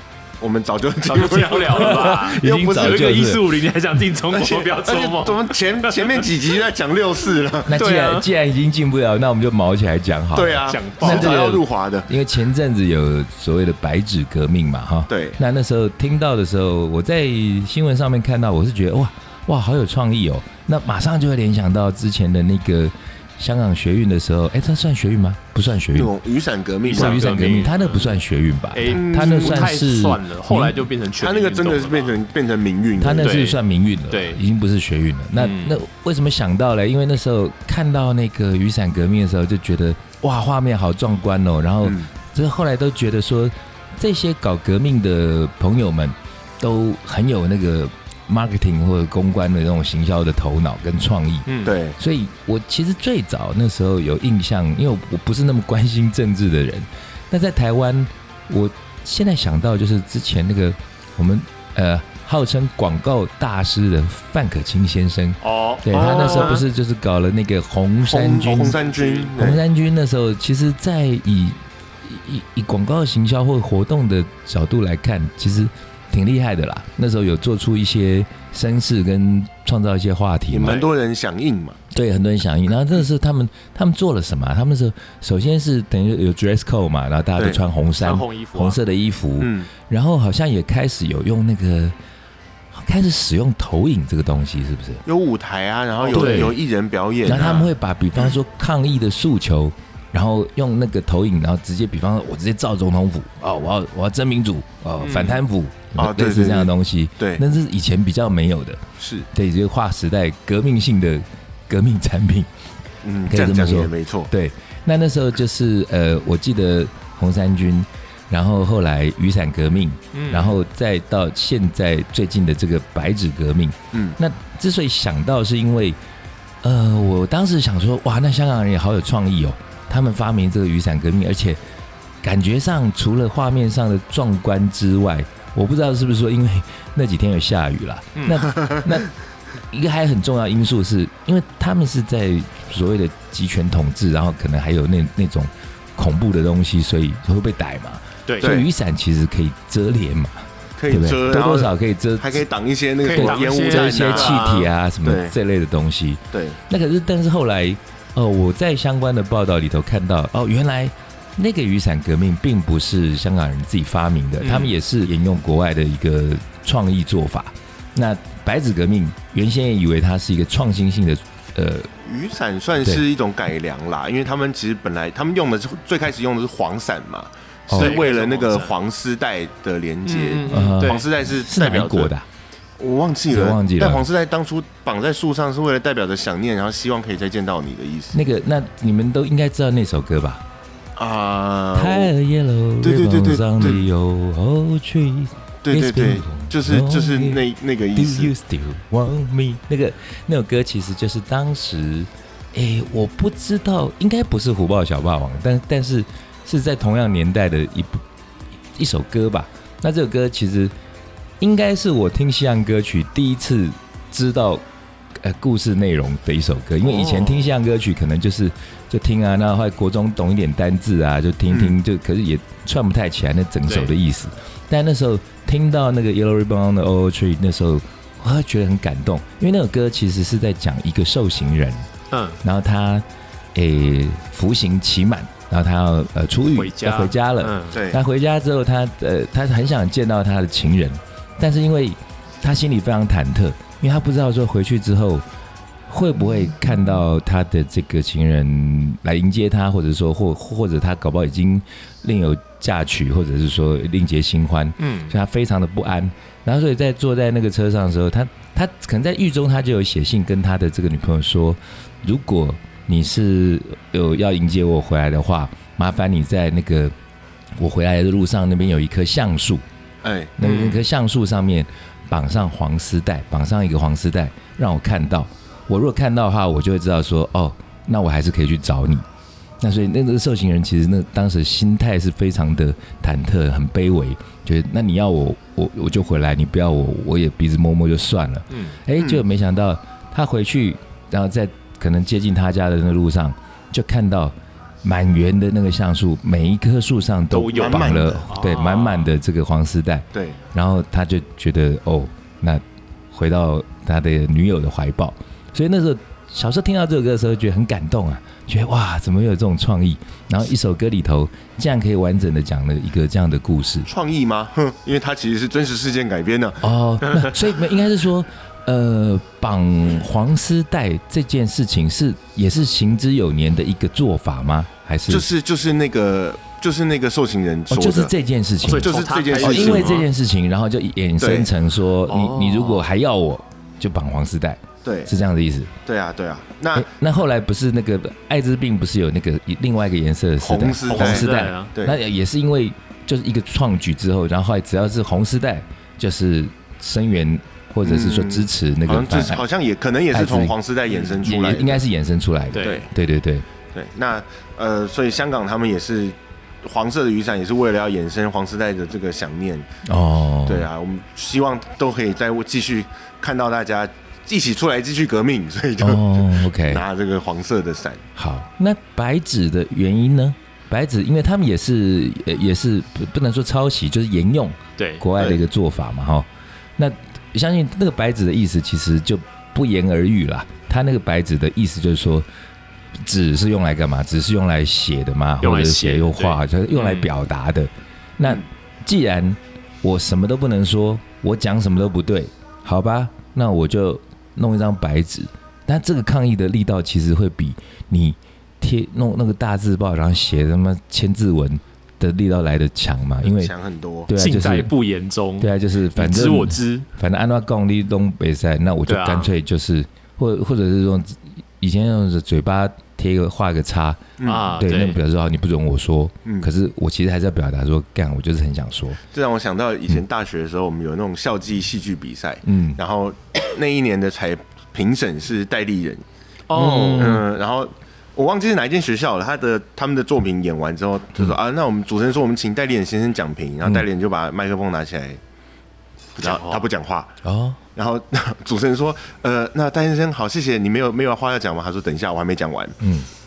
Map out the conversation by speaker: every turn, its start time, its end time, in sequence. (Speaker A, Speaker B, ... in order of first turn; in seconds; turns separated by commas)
Speaker A: 0.4-2.2, Speaker B: 1.1-6.3, Speaker C: 1.7-3.6, Speaker A: 4.3-7.8, Speaker C: 7.7-26.1, Speaker B: 7.7-8.3, Speaker A: 10.3-12.1, Speaker B: 10.7-11.6, Speaker A: 15.1-15.4, Speaker A: 25.9-27.4, Speaker C: 26.9-30.8, Speaker B: 26.9-28.2, Speaker B: 28.7-32.1, Speaker A: 28.9-29.7, Speaker A: 31.2-33.4, Speaker C: 33.0-68.8, Speaker B: 33.2-34.4, Speaker B: 35.4-35.8, Speaker A: 41.8-42.1, Speaker B: 51.5-51.8, Speaker A: 51.6-52.0, Speaker B: 65.4-66.7, Speaker A: 65.9-66.6, Speaker A: 68.0-69.6, Speaker B: 68.7-69.3, Speaker C: 69.4-80.9, Speaker A: 80.5-81.8, Speaker C: 81.9-92.0, Speaker B: 88.0-88.8, Speaker A: 89.4-89.7, Speaker C: 92.7-95.0, Speaker A: 95.0-97.7, Speaker B: 96.1-96.6, Speaker C: 96.1-96.6, Speaker C: 97.2-112.5, Speaker B: 97.3-97.7, Speaker B: 105.0-105.4, Speaker A: 106.0-107.4, Speaker A: 109.0-109.3, Speaker A: 113.0-114.3, Speaker C: 113.3-126.0, Speaker B: 120.1-120.6, Speaker A: 123.9-124.2, Speaker C: 126.6-131.6, Speaker C: 132.2-139.1, Speaker B: 138.2-138.5, Speaker C: 139.7-152.4, Speaker B: 148.3-148.6, Speaker A: 148.4-148.7, Speaker A: 150.8-154.4, Speaker B: 153.0-154.7, Speaker C: 153.1-171.9, Speaker A: 155.0-155.3, Speaker A: 156.3-156.6, Speaker B: 164.4-164.7, Speaker A: 172.0-182.1, Speaker C: 177.7-178.0, Speaker B: 177.8-178.7, Speaker B: 180.1-181.1, Speaker C: 180.5-182.3, Speaker A: 182.8-188.2, Speaker C: 183.3-184.1, Speaker C: 188.1-190.4, Speaker A: 191.0-192.1, Speaker C: 191.8-208.0, Speaker A: 192.8-193.9, Speaker A: 195.6-198.3, Speaker C: 208.8-210.7, Speaker C: 211.4-214.6, Speaker C: 215.2-231.9, Speaker A: 216.8-217.5, Speaker A: 221.5-221.8, Speaker B: 223.7-223.9, Speaker B: 232.1-232.4, Speaker C: 232.4-245.2, Speaker B: 236.6-237.8, Speaker A: 237.7-238.0, Speaker C: 245.9-266.9, Speaker B: 254.8-255.1, Speaker C: 267.6-269.6, Speaker A: 270.0-270.3, Speaker C: 270.4-279.1, Speaker B: 270.4-270.8, Speaker C: 279.6-313.9, Speaker B: 288.5-288.8, Speaker A: 288.9-289.2, Speaker B: 297.3-299.1, Speaker A: 297.5-298.3, Speaker A: 300.1-300.4, Speaker A: 313.9-316.7, Speaker C: 316.6-325.3, Speaker A: 325.1-328.1, Speaker C: 327.7-335.7, Speaker B: 328.6-330.1, Speaker A: 328.8-330.0, Speaker A: 331.2-331.5, Speaker B: 332.1-332.9, Speaker A: 334.8-335.1, Speaker A: 335.9-336.9, Speaker C: 336.7-349.4, Speaker A: 340.4-342.0, Speaker B: 340.9-341.7, Speaker A: 347.8-351.8, Speaker C: 350.1-353.4, Speaker B: 352.5-352.8, Speaker A: 352.6-352.9, Speaker A: 353.7-359.7, Speaker C: 359.9-360.7, Speaker A: 360.5-368.0, Speaker C: 365.8-366.8, Speaker C: 368.2-382.3, Speaker B: 374.8-375.0, Speaker A: 375.2-375.4, Speaker C: 383.0-403.5, Speaker B: 385.4-387.1, Speaker A: 403.2-404.1, Speaker C: 404.1-404.7, Speaker B: 404.1-406.9, Speaker C: 405.4-419.0, Speaker B: 408.9-409.3, Speaker A: 414.2-414.5, Speaker B: 414.3-415.0, Speaker A: 419.1-426.0, Speaker C: 422.4-422.8, Speaker B: 426.5-427.2, Speaker C: 426.5-427.2, Speaker A: 426.6-435.2, Speaker A: 436.2-437.1, Speaker B: 436.2-436.6, Speaker C: 437.2-437.6, Speaker A: 437.8-442.8, Speaker C: 442.8-443.1